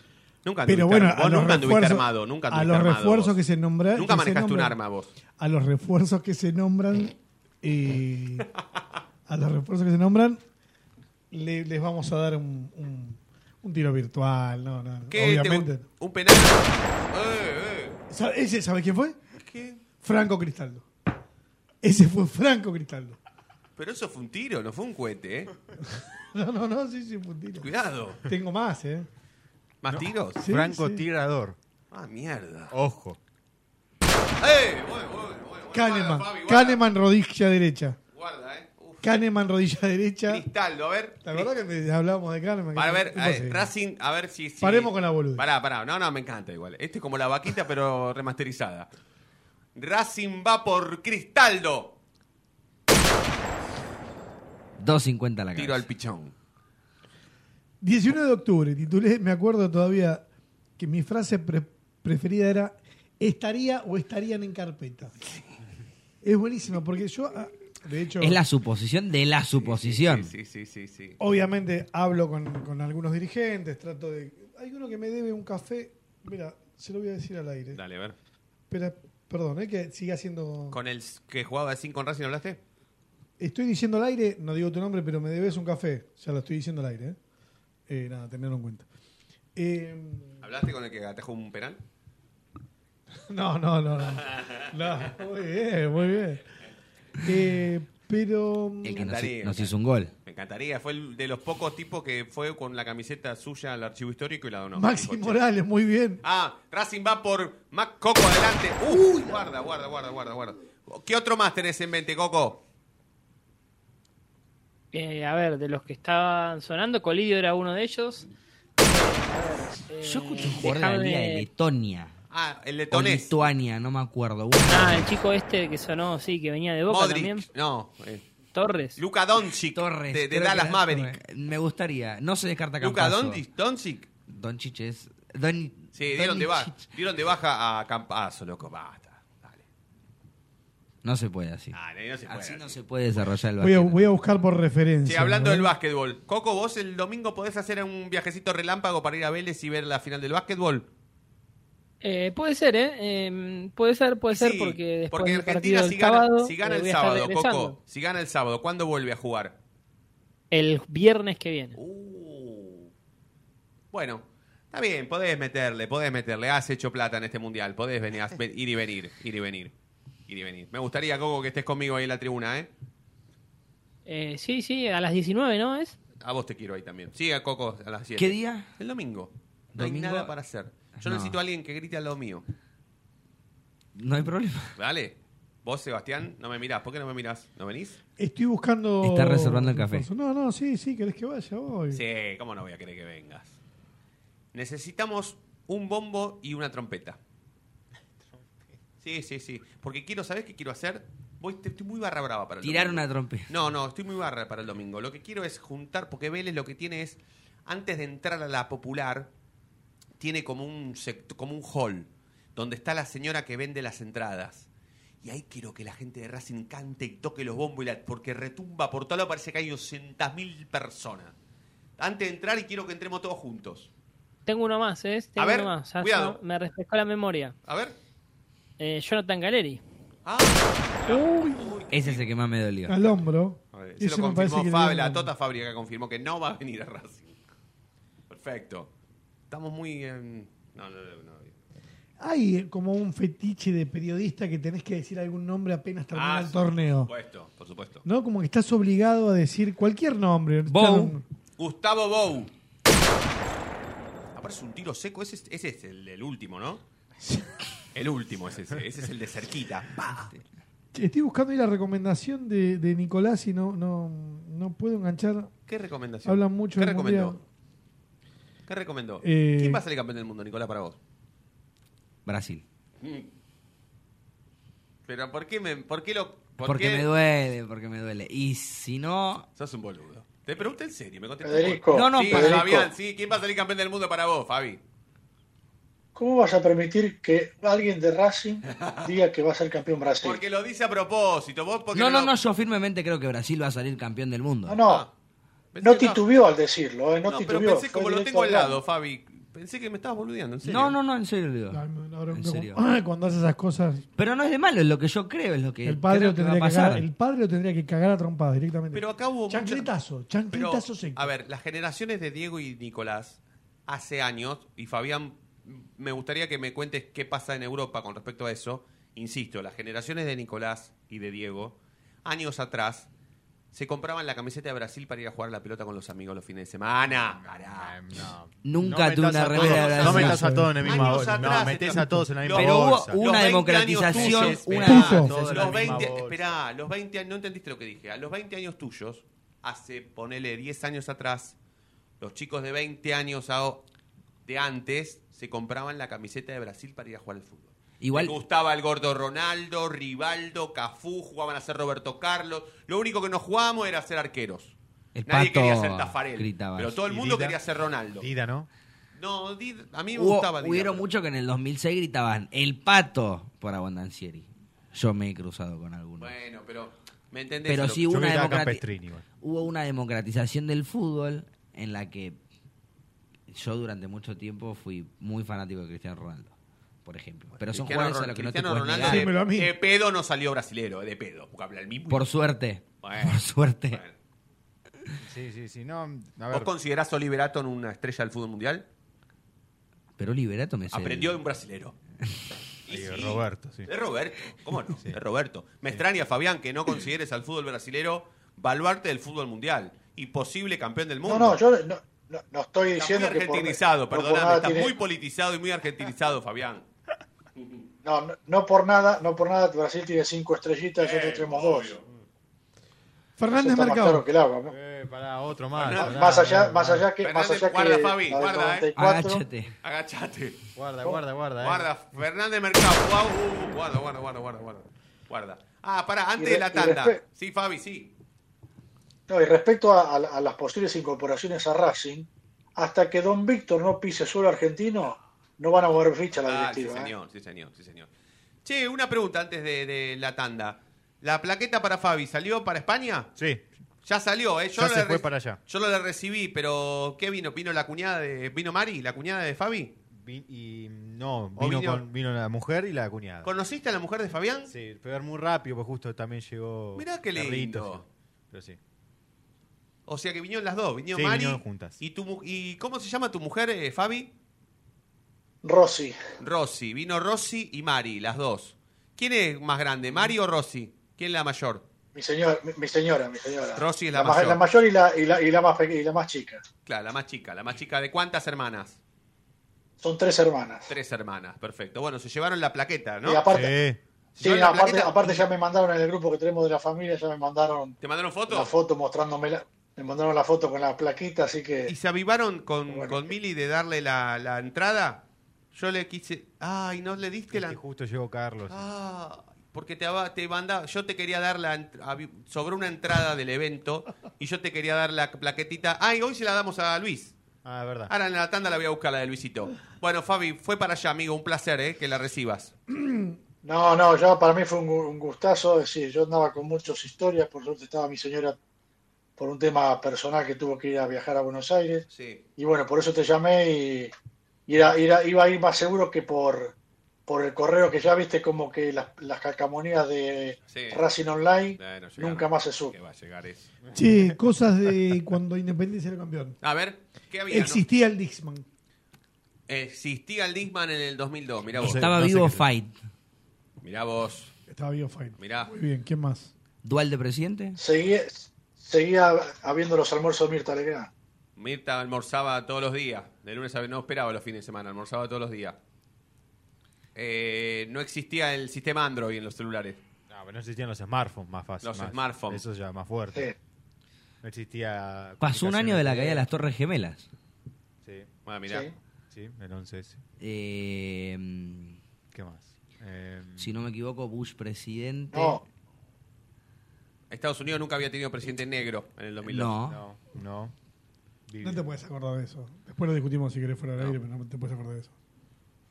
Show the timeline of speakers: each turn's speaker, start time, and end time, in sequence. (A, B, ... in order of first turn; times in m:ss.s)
0:00.4-0:03.4 A
0:00.6-0:04.8 B
0:03.9-0:05.1 A
0:05.4-0:08.5 B
0:09.3-0:10.4 B
0:11.3-0:15.9 B
0:15.1-0:18.0 A
0:18.1-0:19.2 B
0:19.4-0:19.8 A
0:20.0-0:20.8 B
0:21.8-0:23.2 B
0:23.8-0:25.5 A
0:26.3-0:27.7 B
0:27.6-0:28.2 A
0:28.2-0:29.1 B
0:29.8-0:30.4 A
0:29.9-0:31.6 C
0:30.4-0:31.0 B
0:31.9-0:32.7 A
0:32.7-0:33.2 C
0:34.4-0:36.8 A
0:35.7-0:38.0 B
0:38.1-0:39.2 A
0:39.0-0:40.4 B
0:40.3-0:41.5 A
0:41.2-0:43.7 B
0:42.7-0:48.9 A
0:44.6-0:45.4 B
0:49.8-0:51.9 A
0:54.8-0:55.8 D
0:55.6-0:56.3 A
0:57.8-1:00.2 B
1:00.8-1:05.1 B
1:06.2-1:08.4 B
1:08.2-1:10.3 D
1:09.6-1:11.2 A
1:11.2-1:17.8 B
1:17.7-1:18.1 A
1:18.7-1:20.8 B
1:20.7-1:22.6 A
1:23.4-1:27.2 B
1:27.9-1:28.8 B
1:29.6-1:30.4 B
1:30.4-1:31.8 A
1:33.3-1:36.4 B
1:37.2-1:39.1 B
1:38.8-1:40.1 D
1:38.9-1:39.7 A
1:40.2-1:45.4 A
1:44.7-1:46.2 B
1:46.2-1:52.6 A
1:54.9-1:58.3 E
1:58.8-2:01.4 E
2:00.0-2:02.1 D
2:02.3-2:03.4 A
2:02.9-2:05.1 D
2:04.7-2:07.5 E
2:06.9-2:08.2 A
2:08.5-2:09.0 E
2:09.0-2:11.2 A
2:09.7-2:13.4 D
2:12.8-2:14.1 A
2:14.3-2:16.8 D
2:15.9-2:19.6 A
2:21.0-2:21.8 D
2:21.7-2:22.8 A
2:22.3-2:24.0 D
2:23.6-2:25.7 B
2:25.0-2:30.9 A
2:32.0-2:37.8 E
2:34.3-2:39.5 A
2:40.5-2:41.8 E
2:41.8-2:42.9 A
2:43.9-2:49.7 A
2:50.3-2:52.7 A
2:54.0-2:56.0 E
2:56.2-3:02.4 A
2:58.2-2:58.7 D
2:59.8-3:00.3 D
3:01.0-3:01.4 D
3:04.0-3:04.7 D
3:04.8-3:08.0 A
3:08.2-3:12.0 B
3:09.0-3:10.1 D
3:11.9-3:13.6 A
3:14.5-3:17.2 A
3:18.2-3:18.7 C
3:19.0-3:29.3 A
3:22.6-3:23.5 D
3:30.2-3:34.7 A
3:35.2-3:41.3 A
3:42.0-3:43.9 A
3:44.4-3:47.5 E
3:45.4-3:46.4 A
3:47.6-3:47.9 A
3:48.8-3:49.8 E
3:50.2-3:52.3 A
3:51.0-3:51.7 B
3:51.9-3:53.0 D
3:52.9-3:55.3 B
3:53.7-3:57.4 A
3:58.3-3:58.9 A
3:59.5-4:01.5 A
4:02.2-4:07.1 B
4:06.1-4:08.0 A
4:08.0-4:11.2 B
4:10.7-4:11.2 D
4:11.6-4:12.5 A
4:14.3-4:16.8 A
4:17.9-4:20.3 A
4:20.9-4:25.5 B
4:25.7-4:27.4 A
4:26.2-4:27.4 B
4:28.7-4:31.0 A
4:29.2-4:29.8 B
4:32.2-4:32.6 D
4:33.0-4:33.3 A
4:35.1-4:37.0 A
4:36.6-4:39.5 D
4:39.6-4:44.8 A
4:41.4-4:42.9 F
4:41.9-4:42.6 D
4:46.1-4:50.4 F
4:48.6-4:49.1 A
4:50.2-4:52.3 A
4:51.9-4:54.8 D
4:54.7-4:55.0 F
4:54.8-4:55.1 A
4:55.7-4:56.2 A
4:55.8-4:58.8 F
4:57.2-5:00.9 A
5:00.6-5:02.8 D
5:01.7-5:04.0 B
5:04.2-5:07.0 D
5:05.8-5:11.2 B
5:08.9-5:09.9 A
5:10.5-5:23.1 A
5:23.7-5:28.0 A
5:27.1-5:33.2 C
5:28.6-5:30.4 D
5:29.5-5:41.5 A
5:30.2-5:32.2 B
5:32.5-5:36.1 D
5:34.1-5:36.6 C
5:34.9-5:35.3 B
5:42.2-5:43.8 A
5:44.4-5:54.7 A
5:48.0-5:48.3 D
5:55.1-5:57.0 D
5:55.3-5:58.3 A
5:57.1-5:57.6 C
5:58.2-5:58.7 C
5:59.2-6:01.1 A
6:00.1-6:06.3 D
6:06.2-6:08.0 A
6:07.7-6:08.8 D
6:08.0-6:09.2 C
6:09.4-6:12.4 D
6:13.5-6:16.5 D
6:17.0-6:19.3 D
6:17.6-6:22.3 A
6:19.0-6:19.7 B
6:22.1-6:24.0 D
6:23.0-6:23.4 A
6:25.2-6:26.7 C
6:26.5-6:28.8 A
6:30.2-6:31.4 D
6:30.9-6:31.9 A
6:32.9-6:41.6 A
6:32.9-6:33.9 C
6:34.9-6:35.2 C
6:41.2-6:44.9 F
6:43.0-6:46.8 A
6:48.0-6:52.0 F
6:51.0-6:52.0 A
6:53.4-6:54.2 B
6:53.5-6:54.7 F
6:54.6-6:57.1 C
6:55.8-6:56.2 A
6:55.9-6:59.4 F
6:57.2-6:58.9 A
6:59.0-6:59.7 D
6:59.8-7:00.6 A
7:00.7-7:01.9 C
7:01.6-7:08.1 A
7:06.4-7:07.2 F
7:09.3-7:17.1 F
7:16.4-7:18.1 A
7:18.6-7:23.3 A
7:23.4-7:23.6 C
7:24.0-7:29.9 A
7:24.7-7:25.6 C
7:30.1-7:33.5 C
7:31.6-7:32.0 A
7:33.4-7:34.7 A
7:34.7-7:38.8 C
7:37.0-7:38.0 A
7:40.1-7:44.3 A
7:41.1-7:42.0 C
7:45.6-7:46.2 F
7:46.4-7:51.8 A
7:52.1-7:56.6 F
7:53.8-7:54.6 A
7:56.8-7:59.0 A
8:00.0-8:00.9 F
8:00.9-8:03.4 A
8:03.2-8:03.7 F
8:03.5-8:04.0 C
8:04.4-8:05.4 A
8:04.4-8:07.9 F
8:08.0-8:08.7 A
8:08.5-8:11.9 F
8:11.9-8:15.2 A
8:12.9-8:13.3 F
8:15.7-8:17.8 A
8:17.5-8:18.8 C
8:18.7-8:27.3 A
8:27.6-8:28.1 C
8:28.1-8:32.7 A
8:32.9-8:33.3 B
8:33.6-8:38.6 F
8:39.4-8:42.0 F
8:42.1-8:42.4 A
8:42.6-8:44.1 F
8:44.7-8:46.7 F
8:47.3-8:52.9 F
8:50.7-8:51.0 A
8:51.8-8:53.7 A
8:53.8-8:54.3 C
8:53.9-8:56.6 B
8:56.6-8:57.8 A
8:57.5-8:58.6 B
8:59.7-9:02.0 A
9:01.7-9:02.6 C
9:01.8-9:03.0 D
9:03.8-9:04.5 A
9:04.7-9:06.5 B
9:05.4-9:05.7 A
9:06.8-9:07.8 D
9:07.8-9:11.1 F
9:11.6-9:15.8 A
9:17.1-9:20.0 A
9:20.3-9:23.5 C
9:21.8-9:22.6 A
9:24.4-9:26.5 C
9:25.4-9:27.3 D
9:28.0-9:28.3 C
9:28.4-9:28.8 A
9:29.3-9:30.2 C
9:30.4-9:32.0 D
9:32.3-9:33.7 C
9:33.6-9:35.6 D
9:35.3-9:35.6 F
9:37.3-9:39.7 A
9:39.4-9:40.0 D
9:39.8-9:40.7 C
9:41.5-9:41.9 C
9:41.6-9:45.1 B